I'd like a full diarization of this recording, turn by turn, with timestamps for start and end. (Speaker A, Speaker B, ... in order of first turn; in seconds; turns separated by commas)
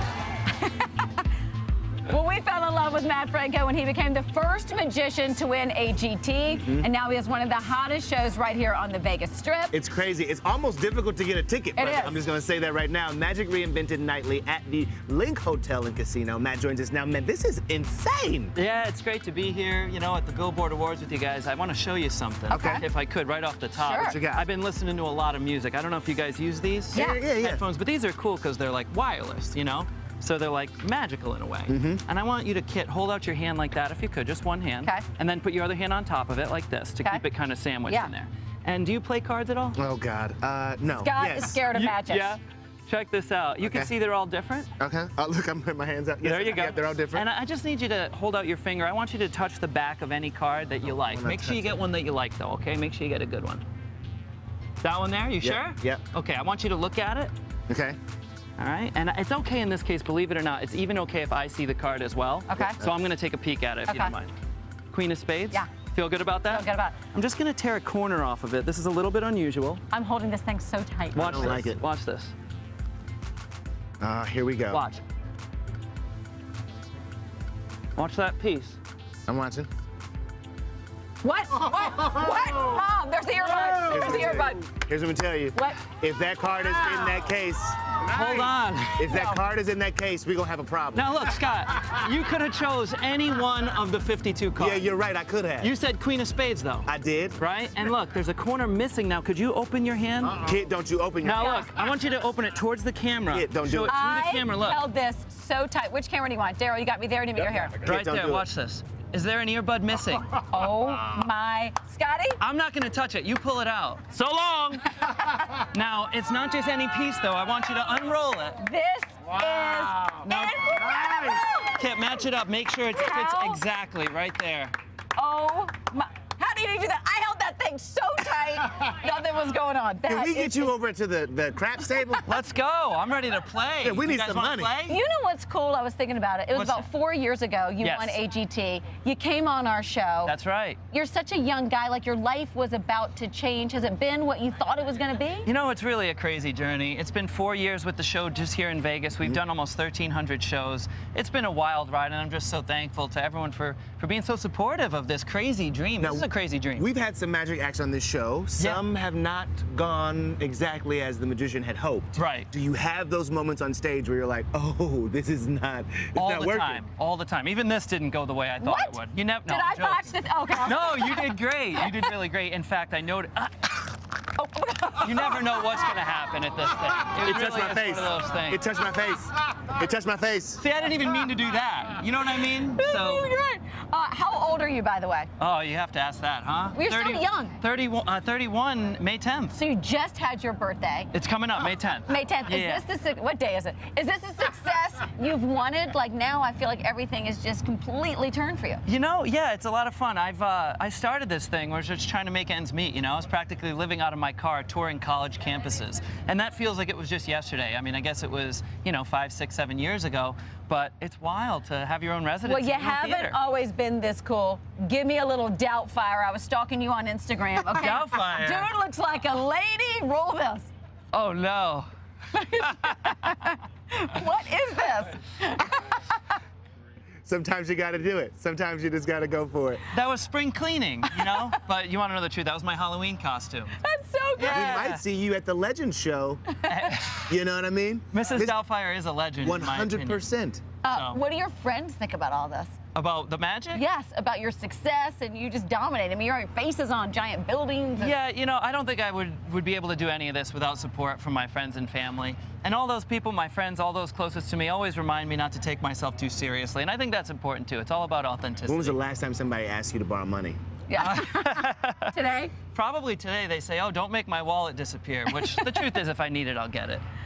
Speaker A: 0.6-1.2, Speaker A: 2.0-9.8, Speaker B: 6.6-6.9, Speaker B: 9.7-18.5, Speaker A: 11.7-12.2, Speaker C: 18.6-39.8, Speaker A: 22.5-22.8, Speaker B: 22.5-22.9, Speaker A: 23.8-24.2, Speaker B: 24.0-24.4, Speaker A: 26.9-27.2, Speaker B: 26.9-27.6, Speaker B: 31.7-32.0, Speaker B: 39.8-41.6, Speaker A: 41.0-42.4, Speaker C: 41.6-44.7, Speaker B: 43.6-43.9, Speaker B: 44.8-47.2, Speaker C: 46.2-53.6, Speaker B: 50.9-51.8, Speaker C: 54.8-57.3, Speaker B: 55.4-56.0, Speaker B: 57.7-58.0, Speaker C: 58.6-64.3, Speaker A: 62.5-62.8, Speaker B: 62.6-62.9, Speaker A: 63.9-64.1, Speaker C: 64.9-69.8, Speaker A: 66.5-67.0, Speaker A: 69.9-71.5, Speaker C: 71.1-72.3, Speaker B: 71.2-71.8, Speaker B: 74.0-74.8, Speaker C: 74.7-75.0, Speaker C: 78.0-78.8, Speaker B: 79.3-79.7, Speaker A: 81.2-84.7, Speaker B: 83.8-88.0, Speaker A: 85.5-85.8, Speaker C: 88.0-89.1, Speaker B: 89.0-91.1, Speaker A: 89.1-89.4, Speaker C: 90.9-94.9, Speaker B: 94.6-95.7, Speaker C: 95.6-100.4, Speaker B: 96.8-97.4, Speaker B: 100.4-101.6, Speaker C: 101.2-104.8, Speaker A: 101.3-101.7, Speaker B: 103.3-104.0, Speaker A: 103.9-107.8, Speaker B: 107.8-108.5, Speaker C: 107.8-110.3, Speaker A: 110.3-112.4, Speaker C: 112.4-118.6, Speaker A: 118.6-121.8, Speaker C: 120.2-120.7, Speaker B: 120.8-121.4, Speaker C: 121.7-124.7, Speaker A: 122.9-123.6, Speaker A: 125.1-130.7, Speaker B: 130.1-132.3, Speaker C: 132.2-135.0, Speaker B: 133.8-134.7, Speaker A: 134.9-140.3, Speaker C: 136.5-136.9, Speaker C: 137.8-138.2, Speaker C: 140.2-140.8, Speaker A: 140.9-145.5, Speaker C: 145.4-156.8, Speaker B: 156.0-166.8, Speaker C: 162.1-162.5, Speaker C: 166.1-173.9, Speaker A: 168.6-172.2, Speaker A: 174.3-175.9, Speaker C: 175.0-178.6, Speaker B: 177.2-180.6, Speaker C: 180.6-183.3, Speaker A: 182.2-185.3, Speaker C: 185.4-189.6, Speaker A: 186.7-187.5, Speaker A: 189.5-191.1, Speaker C: 191.1-192.8, Speaker A: 192.1-198.8, Speaker C: 198.8-213.4, Speaker A: 212.4-220.7, Speaker C: 217.7-218.7, Speaker C: 221.1-221.9, Speaker A: 222.3-226.0, Speaker C: 222.6-223.1, Speaker B: 227.2-229.8, Speaker C: 229.9-233.7, Speaker A: 233.8-234.8, Speaker C: 234.4-235.0, Speaker B: 234.5-236.4, Speaker C: 236.7-237.3, Speaker B: 237.3-238.6, Speaker C: 238.1-240.3, Speaker B: 239.4-240.7, Speaker A: 240.8-242.8, Speaker C: 240.9-241.2, Speaker C: 242.9-243.8, Speaker A: 243.7-248.2, Speaker C: 248.0-258.9, Speaker B: 258.7-260.6, Speaker A: 260.9-262.5, Speaker C: 260.9-262.1, Speaker C: 262.7-267.0, Speaker A: 265.3-265.8